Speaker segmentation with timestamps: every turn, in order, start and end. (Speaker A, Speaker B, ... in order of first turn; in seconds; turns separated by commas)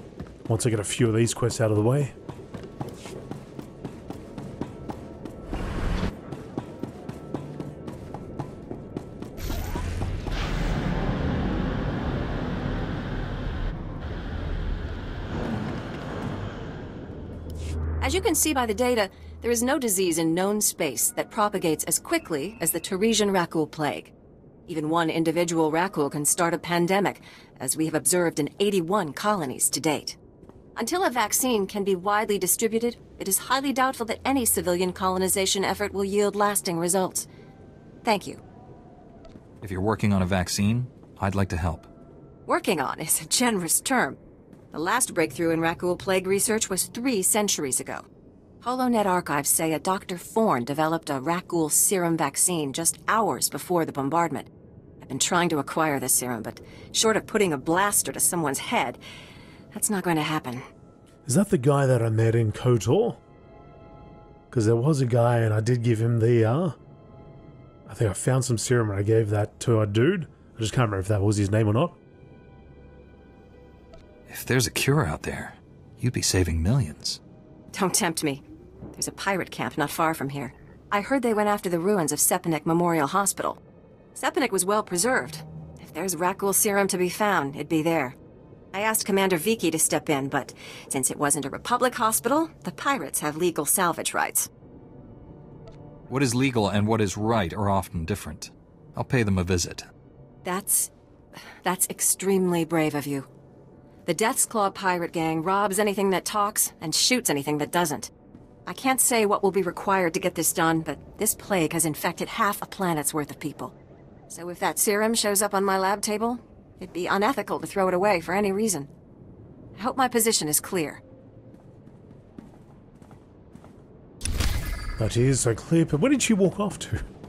Speaker A: 0.5-2.1, Speaker B: 18.0-24.1, Speaker B: 24.7-30.2, Speaker B: 30.8-37.3, Speaker B: 38.0-38.4, Speaker C: 39.6-41.9, Speaker B: 42.5-44.2, Speaker B: 44.7-48.0, Speaker B: 48.6-54.5, Speaker B: 55.0-59.0, Speaker B: 59.7-60.6, Speaker A: 61.2-63.2, Speaker A: 64.5-66.8, Speaker A: 67.9-72.0, Speaker C: 74.3-77.2, Speaker B: 77.7-83.6, Speaker B: 84.1-88.2, Speaker B: 88.7-94.5, Speaker C: 96.1-99.9, Speaker B: 100.4-100.9, Speaker B: 101.6-103.3, Speaker B: 104.0-108.1, Speaker B: 108.7-113.7, Speaker B: 114.3-118.9, Speaker B: 119.8-121.0, Speaker A: 125.0-127.0